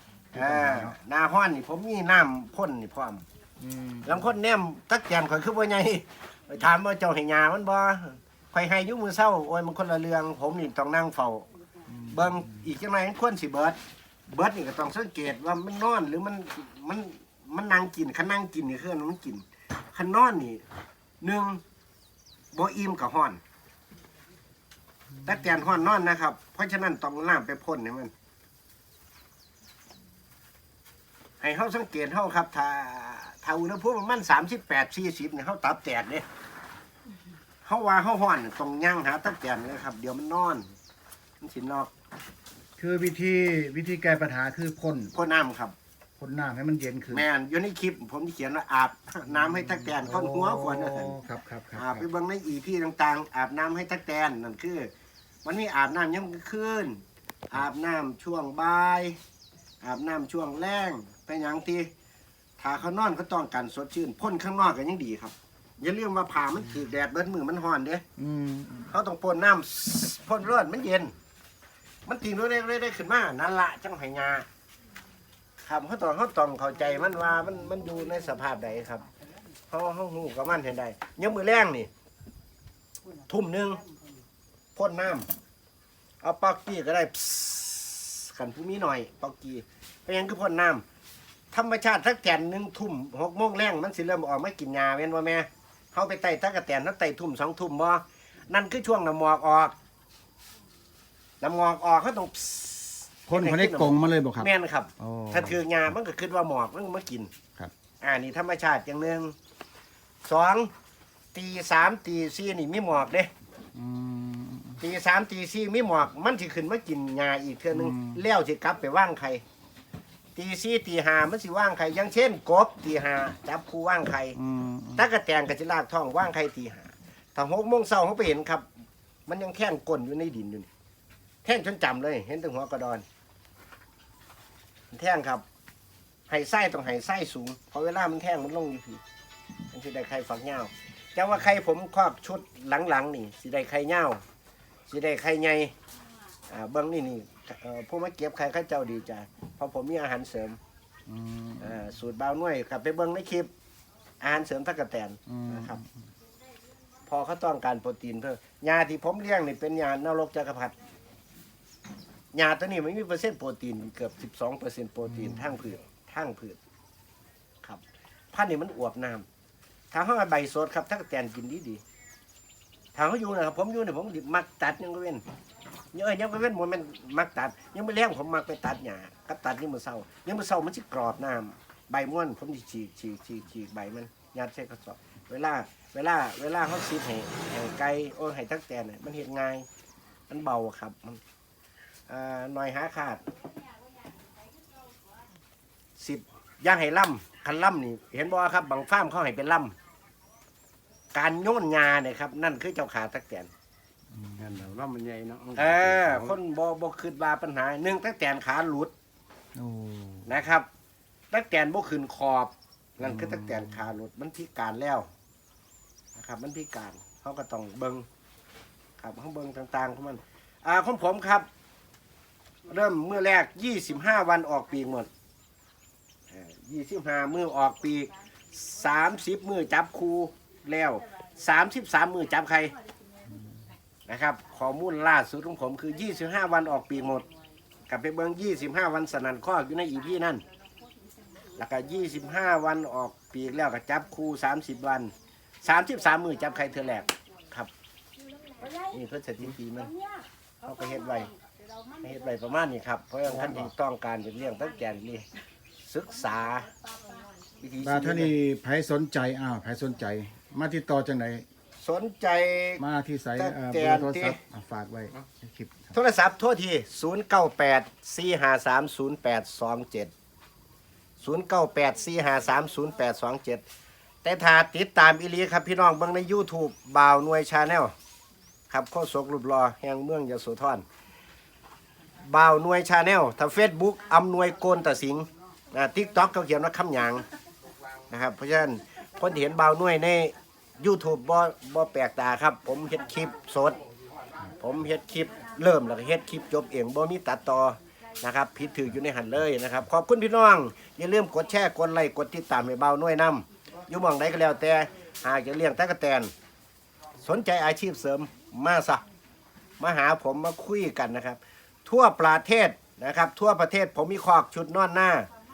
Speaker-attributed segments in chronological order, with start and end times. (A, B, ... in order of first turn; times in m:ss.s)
0:00.3-0:00.9 A
0:00.4-0:03.2 B
0:03.6-0:04.2 A
0:04.0-0:11.5 B
0:11.9-0:12.7 A
0:12.1-0:20.6 B
0:21.2-0:21.6 B
0:22.5-0:23.4 B
0:25.2-0:25.7 A
0:25.2-0:28.1 B
0:31.4-0:36.2 B
0:37.6-0:40.7 B
0:41.4-0:41.9 B
0:42.8-0:45.1 A
0:45.1-0:45.8 B
0:46.2-0:47.2 A
0:47.1-0:51.2 B
0:49.3-0:52.1 A
0:51.8-0:54.9 B
0:55.4-0:59.2 B
0:59.8-1:01.9 B
1:02.6-1:08.0 B
1:08.2-1:08.9 A
1:08.9-1:11.1 B
1:12.1-1:14.5 B
1:15.6-1:19.1 B
1:19.7-1:21.9 B
1:23.3-1:23.8 B
1:24.8-1:25.3 B
1:26.2-1:30.8 B
1:31.5-1:39.8 B
1:41.4-1:47.3 B
1:43.3-1:45.6 A
1:48.0-1:49.3 B
1:50.2-1:50.7 B
1:51.3-1:53.3 B
1:53.8-1:54.8 A
1:54.8-1:59.4 B
1:57.7-1:58.2 A
2:00.4-2:04.4 B
2:04.4-2:05.1 A
2:05.0-2:08.6 B
2:09.3-2:10.7 B
2:11.4-2:13.0 B
2:14.9-2:15.4 B
2:16.3-2:19.0 B
2:19.7-2:24.2 B
2:24.9-2:25.7 B
2:26.5-2:30.6 B
2:31.1-2:31.8 A
2:31.6-2:33.5 B
2:34.2-2:35.8 B
2:35.3-2:35.9 A
2:37.1-2:40.7 B
2:42.3-2:46.6 B
2:45.1-2:45.5 A
2:48.3-2:49.2 B
2:49.9-2:51.8 B
2:52.9-2:55.2 B
2:55.9-3:09.7 B
3:10.3-3:11.2 B
3:12.1-3:13.2 B
3:16.0-3:19.7 B
3:21.1-3:23.5 B
3:24.1-3:24.6 A
3:24.4-3:26.3 C
3:25.6-3:28.9 B
3:29.6-3:30.3 A
3:30.3-3:30.7 B
3:31.3-3:35.1 B
3:33.0-3:33.8 A
3:36.2-3:38.1 B
3:39.0-3:41.5 B
3:42.7-3:45.1 B
3:46.3-3:52.7 B
3:54.1-3:57.3 B
3:57.9-4:00.4 B
4:01.6-4:05.1 B
4:05.6-4:07.7 B
4:08.8-4:09.9 B
4:10.6-4:11.3 B
4:12.0-4:15.3 B
4:13.2-4:13.7 A
4:15.8-4:16.7 B
4:17.6-4:18.3 B
4:17.8-4:21.4 A
4:21.8-4:22.8 B
4:22.8-4:25.9 A
4:23.4-4:24.4 B
4:25.9-4:30.1 B
4:31.2-4:33.6 B
4:34.2-4:37.9 B
4:38.7-4:40.8 B
4:42.3-4:47.2 B
4:48.1-4:53.8 B
4:54.4-5:06.3 B
5:07.2-5:09.0 B
5:09.8-5:15.3 B